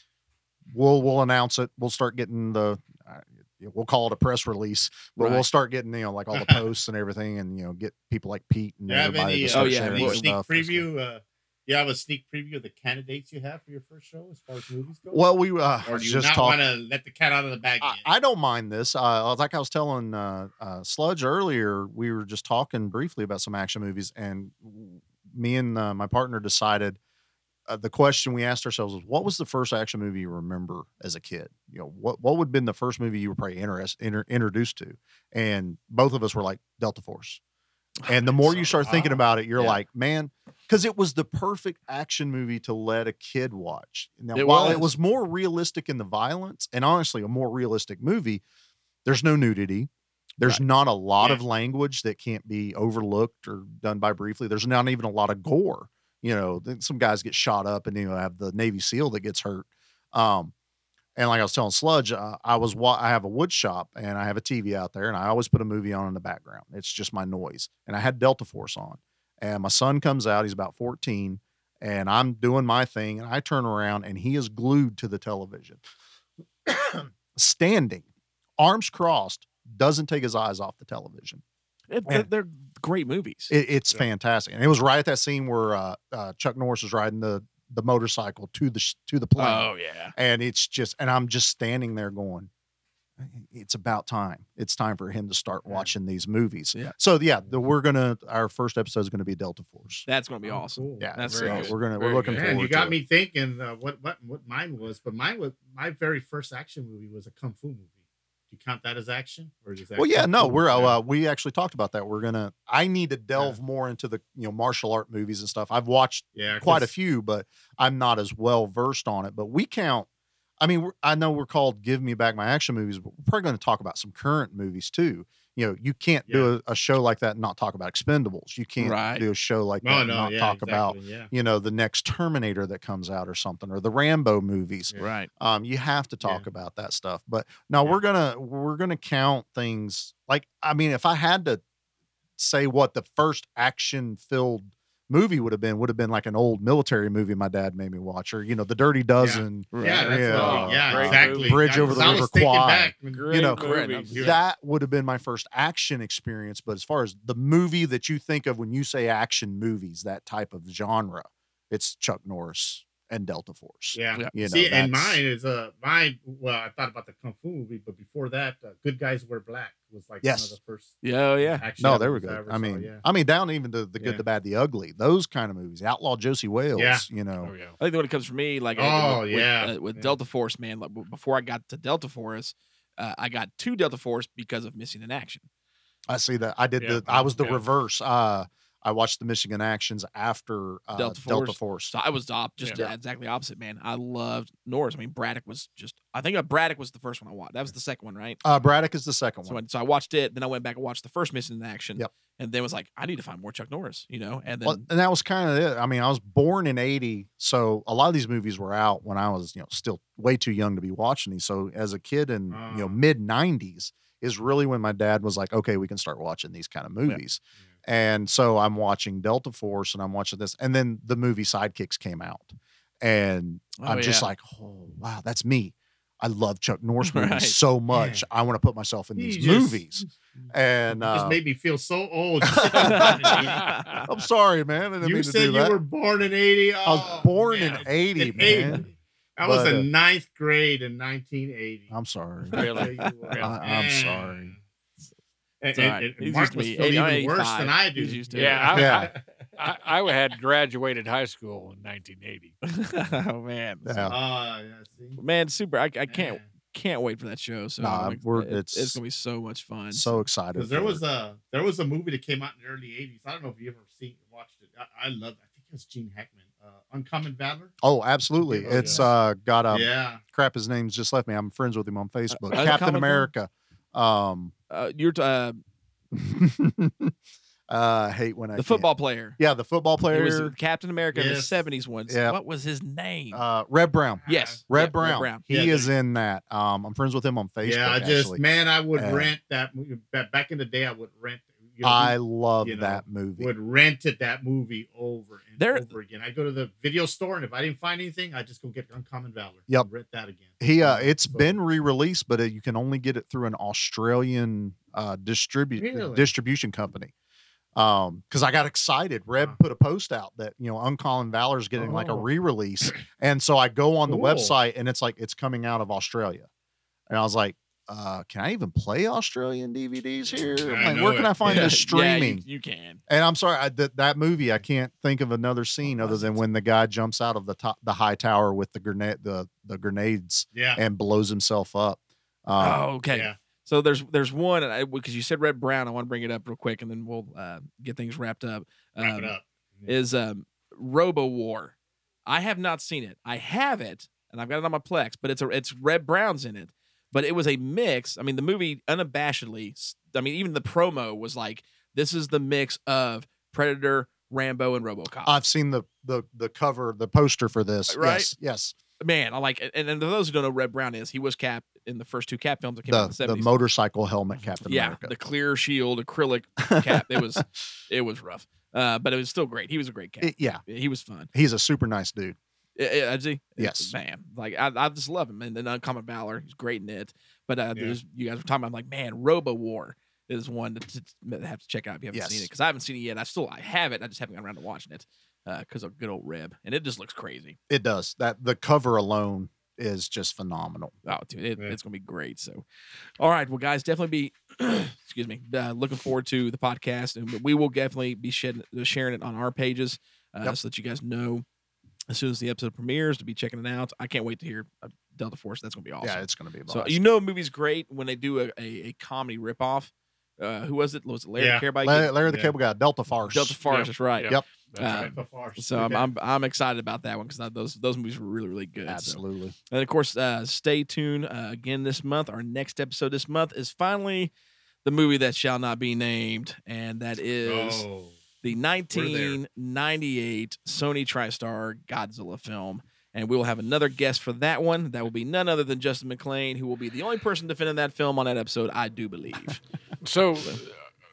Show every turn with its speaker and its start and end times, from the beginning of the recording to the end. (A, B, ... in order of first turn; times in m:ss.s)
0:00.7-0:10.9 A
0:05.2-0:05.4 B
0:06.3-0:06.6 C
0:08.9-0:15.2 C
0:09.5-0:10.3 B
0:15.1-0:16.6 A
0:15.8-0:18.0 C
0:17.8-0:27.0 A
0:27.7-0:37.4 A
0:38.0-0:39.8 B
0:38.1-0:48.4 A
0:44.3-0:44.9 B
0:49.0-1:00.5 A
1:01.2-1:15.8 A
1:16.7-1:18.1 A
1:18.6-1:21.4 A
1:21.9-1:23.5 B
1:23.5-1:32.5 A
1:29.4-1:30.2 B
1:33.2-1:40.1 A
1:40.1-1:42.5 B
1:40.5-1:41.1 C
1:41.0-1:43.0 A
1:41.3-1:42.4 D
1:42.4-1:47.9 C
1:48.5-1:51.0 C
1:50.0-2:00.1 A
1:56.4-1:56.9 C
2:00.6-2:21.6 A
2:08.8-2:09.2 B
2:09.8-2:11.3 C
2:15.0-2:15.3 B
2:22.4-2:33.6 A
2:29.2-2:34.4 C
2:29.7-2:30.6 B
2:30.0-2:32.3 D
2:33.1-2:34.3 D
2:33.6-2:34.2 B
2:34.2-2:45.2 A
2:43.9-2:51.0 C
2:50.2-2:50.6 A
2:51.0-2:51.7 B
2:51.6-2:53.0 C
2:51.8-2:57.5 A
2:56.8-2:57.1 C
2:57.4-2:57.8 D
2:57.8-3:05.5 B
2:58.8-3:00.2 C
3:06.1-3:11.9 A
3:06.8-3:07.6 D
3:11.0-3:18.4 B
3:18.4-3:19.6 A
3:19.5-3:24.9 B
3:24.6-3:51.4 A
3:32.5-3:33.0 C
3:43.8-3:44.3 B
3:47.0-3:47.6 B
3:47.9-3:48.2 C
3:49.2-3:53.7 C
3:52.5-3:53.4 A
3:52.8-3:54.0 B
3:54.1-3:55.8 A
3:55.0-4:01.9 C
3:56.8-3:58.8 A
3:59.4-3:59.9 A
4:01.9-4:02.8 A
4:02.6-4:03.5 D
4:02.7-4:04.6 C
4:03.4-4:04.5 A
4:05.6-4:09.4 C
4:05.7-4:08.8 B
4:08.3-4:12.5 D
4:08.7-4:09.1 A
4:12.6-4:14.1 B
4:13.8-4:14.2 A
4:14.1-4:15.2 C
4:15.2-4:20.2 B
4:16.1-4:16.5 C
4:17.8-4:19.0 A
4:19.9-4:21.0 A
4:20.5-4:27.7 C
4:27.8-4:34.5 A
4:28.5-4:29.1 C
4:28.7-4:29.0 B
4:29.7-4:30.2 C
4:32.3-4:33.3 B
4:34.7-4:35.6 B
4:36.1-4:37.1 A
4:37.7-4:40.5 A
4:38.6-4:39.4 B
4:40.1-4:43.4 B
4:41.1-4:41.6 C
4:42.1-4:42.4 A
4:43.3-4:48.4 A
4:44.2-4:44.6 C
4:44.3-4:45.4 B
4:45.5-4:45.9 C
4:47.6-5:01.6 C
4:48.9-4:49.3 A
4:51.8-4:53.5 A
4:55.6-4:55.9 B
5:00.6-5:07.1 A
5:05.8-5:06.3 C
5:07.8-5:16.5 A
5:11.8-5:12.3 C
5:14.1-5:14.6 C
5:17.1-5:22.4 A
5:20.7-5:21.7 C
5:21.4-5:23.0 B
5:23.1-5:32.8 A
5:26.0-5:26.3 B
5:30.5-5:30.8 C
5:32.6-5:39.3 B
5:33.1-5:33.4 C
5:39.0-5:40.0 C
5:39.9-5:41.8 B
5:42.3-5:55.4 B
5:55.3-5:58.8 A
5:57.9-5:58.3 B
5:59.0-6:03.5 B
6:02.9-6:05.1 A
6:04.7-6:11.3 B
6:06.6-6:07.4 A
6:10.2-6:10.6 A
6:11.3-6:12.4 A
6:12.8-6:27.6 B
6:13.6-6:14.0 A
6:22.1-6:22.5 A
6:27.7-6:31.0 A
6:31.1-6:32.6 B
6:33.2-6:41.4 B
6:42.1-6:52.1 B
6:46.0-6:47.0 A
6:51.4-6:51.7 C
6:51.8-6:53.6 A
6:52.2-6:52.5 C
6:53.3-7:04.3 B
6:53.7-6:55.1 D
6:54.8-6:56.1 C
6:58.9-6:59.6 A
7:04.8-7:07.8 B
7:07.4-7:08.2 C
7:08.4-7:19.6 B
7:08.9-7:09.4 C
7:20.0-7:20.7 D